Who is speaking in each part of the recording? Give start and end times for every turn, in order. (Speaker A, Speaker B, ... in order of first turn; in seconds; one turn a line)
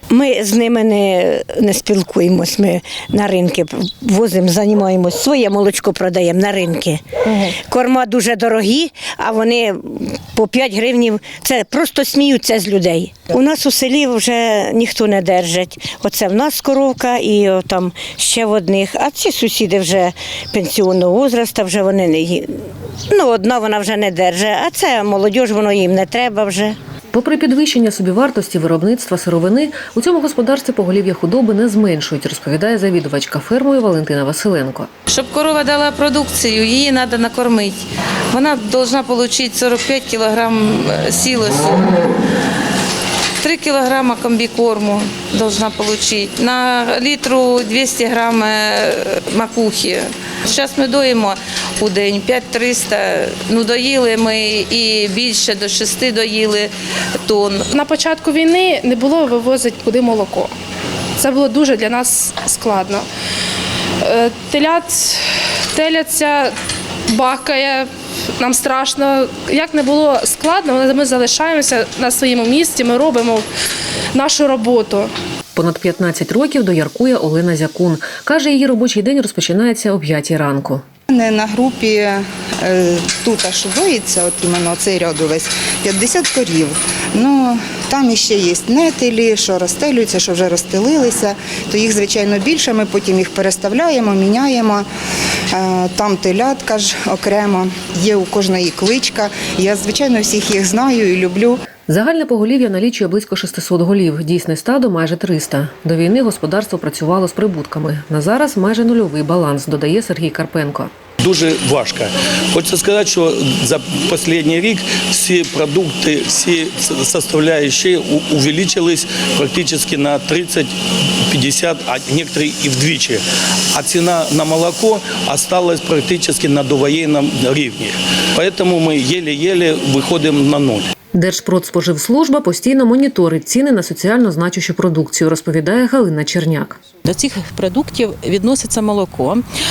Speaker A: 0.1-26.8
Speaker B: 27.1-34.9
Speaker C: 35.1-42.1
Speaker C: 43.4-56.7
Speaker C: 57.2-57.7
Speaker D: 57.7-60.5
Speaker D: 61.2-63.0
Speaker D: 64.0-65.2
Speaker D: 65.7-66.5
Speaker D: 67.1-67.9
Speaker D: 68.4-73.4
Speaker D: 74.1-75.1
Speaker B: 75.5-80.8
Speaker E: 81.1-94.8
Speaker E: 95.5-101.6
Speaker B: 101.9-110.9
Speaker F: 111.2-120.7
Speaker F: 121.3-123.2
Speaker F: 123.7-130.9
Speaker B: 131.1-136.8
Speaker G: 137.0-139.4